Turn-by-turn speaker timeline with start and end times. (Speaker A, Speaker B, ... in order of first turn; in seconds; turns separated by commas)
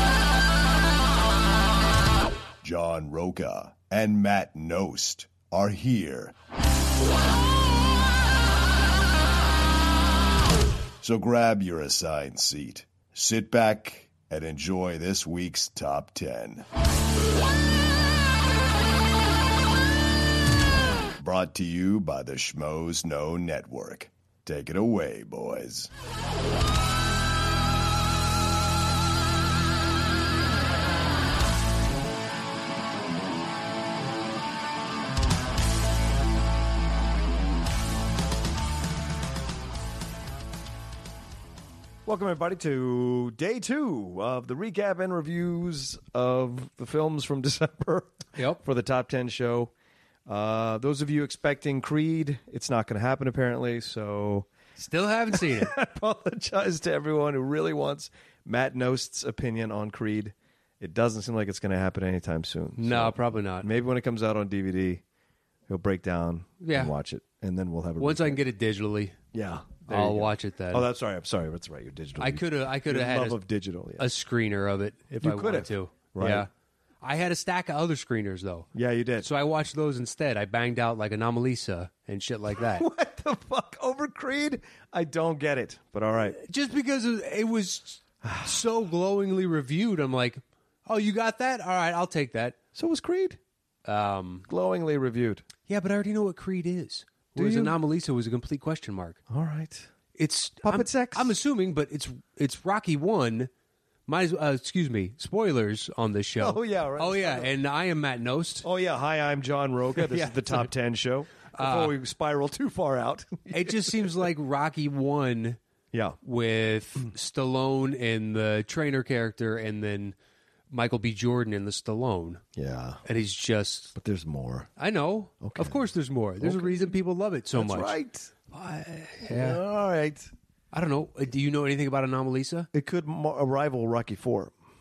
Speaker A: 2.6-6.3, Speaker A: 11.0-16.7, Speaker A: 21.2-25.9, Speaker B: 42.1-49.7, Speaker B: 50.3-54.5, Speaker C: 54.8-55.7, Speaker B: 55.3-65.0, Speaker C: 62.8-63.7, Speaker B: 65.7-68.4, Speaker C: 66.6-66.9, Speaker C: 68.0-69.2, Speaker B: 69.3-74.1, Speaker C: 69.9-70.9, Speaker C: 72.2-73.4, Speaker C: 74.0-76.5, Speaker B: 75.2-76.5, Speaker C: 77.0-78.7, Speaker B: 78.8-79.3, Speaker C: 79.2-82.9, Speaker B: 82.5-86.4, Speaker C: 86.3-92.6, Speaker B: 88.2-88.5, Speaker B: 92.8-93.4, Speaker C: 93.8-94.5, Speaker B: 94.5-95.5, Speaker C: 95.7-99.2, Speaker B: 97.4-97.8, Speaker B: 99.3-99.9, Speaker C: 100.2-103.5, Speaker B: 100.6-101.3, Speaker C: 104.1-108.7, Speaker B: 106.4-107.5, Speaker B: 108.6-114.2, Speaker C: 110.0-110.7, Speaker C: 111.5-111.9, Speaker C: 113.5-115.6, Speaker B: 115.9-116.2, Speaker C: 116.2-120.2, Speaker C: 120.7-122.4, Speaker B: 122.6-123.0, Speaker C: 123.0-124.0, Speaker B: 124.0-124.7, Speaker C: 124.8-128.0, Speaker B: 125.4-125.9, Speaker B: 126.4-126.9, Speaker B: 127.5-128.3, Speaker C: 128.5-129.6, Speaker B: 129.3-130.3, Speaker C: 130.7-132.7, Speaker B: 132.7-134.5